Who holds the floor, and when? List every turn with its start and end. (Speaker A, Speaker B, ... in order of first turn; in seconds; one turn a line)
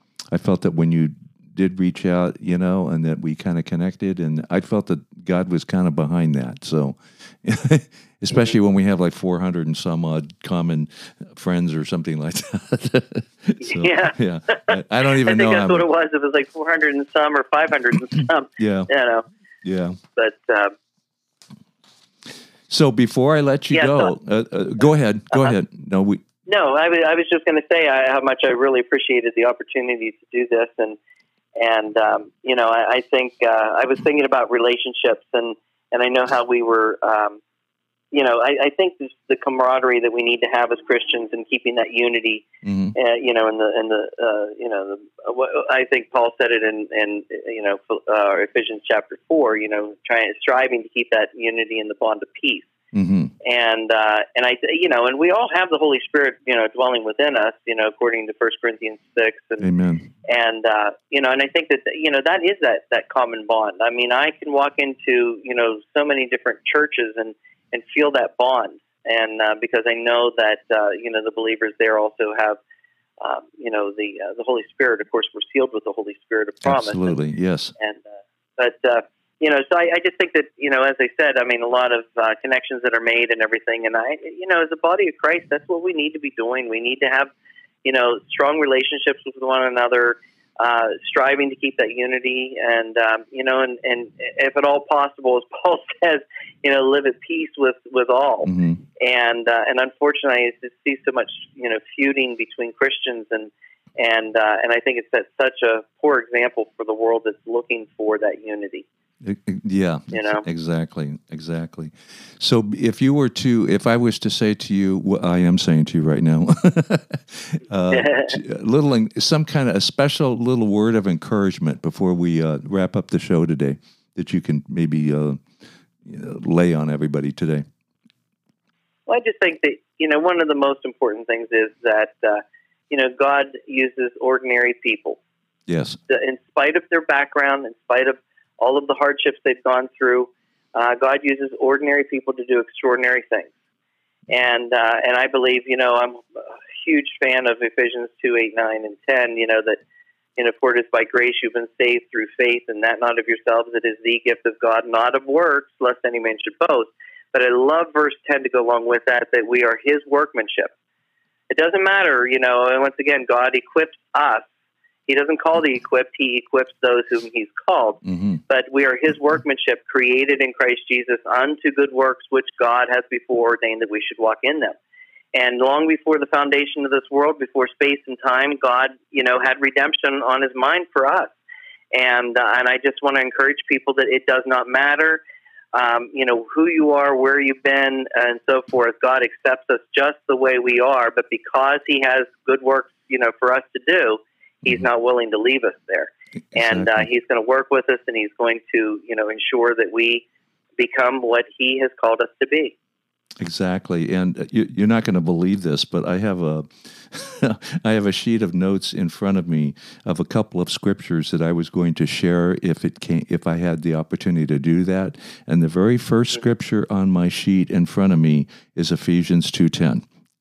Speaker A: 0.3-15.8
Speaker B: 13.6-19.2
Speaker A: 18.6-18.9
Speaker A: 19.6-20.0
Speaker B: 20.2-20.7
Speaker A: 22.7-26.2
Speaker B: 23.7-24.1
Speaker B: 26.5-31.0
Speaker B: 31.6-37.4
Speaker B: 38.1-52.7
Speaker A: 42.6-43.0
Speaker A: 52.9-53.3
Speaker B: 53.4-59.7
Speaker A: 59.6-60.1
Speaker B: 60.3-72.6
Speaker B: 73.2-77.2
Speaker A: 76.6-77.7
Speaker B: 77.8-87.3
Speaker B: 87.8-108.8
Speaker A: 98.5-98.8
Speaker A: 109.2-125.4
Speaker B: 110.1-110.5
Speaker B: 117.9-118.4
Speaker A: 126.0-127.6
Speaker B: 129.1-135.2
Speaker A: 135.7-136.0
Speaker B: 136.1-143.5
Speaker B: 144.3-149.8
Speaker B: 150.4-160.7
Speaker B: 161.5-164.5
Speaker B: 165.1-174.8
Speaker A: 168.1-168.4
Speaker B: 175.3-181.3
Speaker B: 181.9-185.2
Speaker B: 185.7-200.3
Speaker A: 196.5-197.1
Speaker B: 200.8-202.8
Speaker A: 203.4-220.0